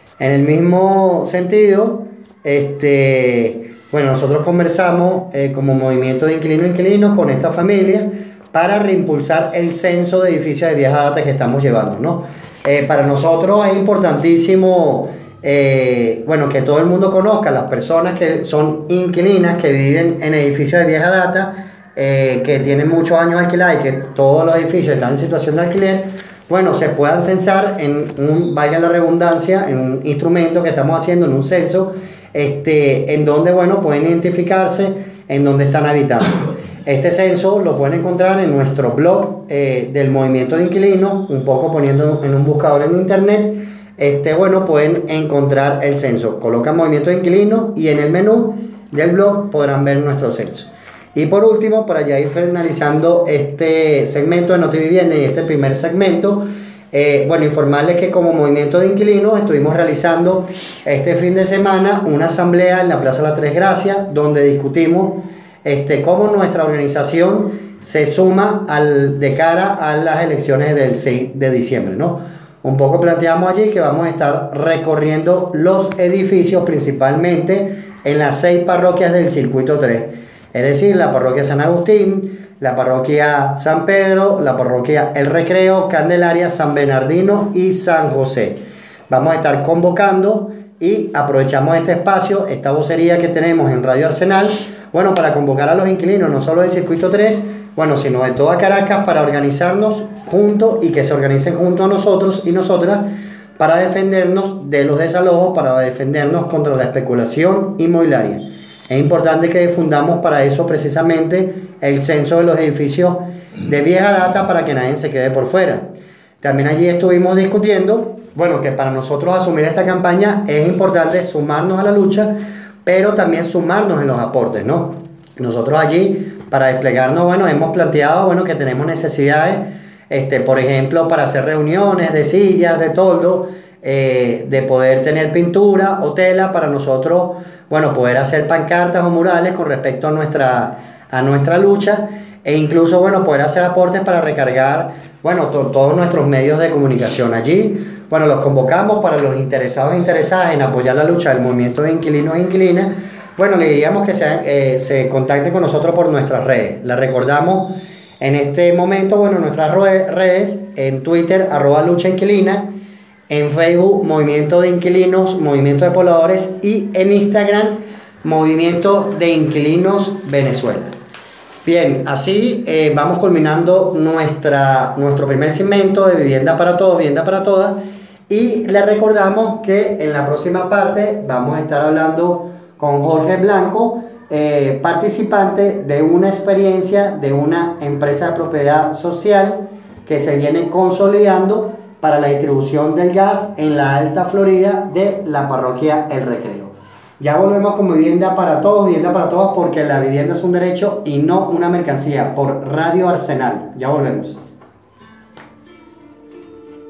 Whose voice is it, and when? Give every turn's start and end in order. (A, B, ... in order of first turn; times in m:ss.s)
0:00.2-1:28.6 A
1:29.1-1:55.9 A
1:56.4-2:42.7 A
2:43.3-2:50.9 A
2:51.6-2:57.8 A
2:58.3-3:24.4 A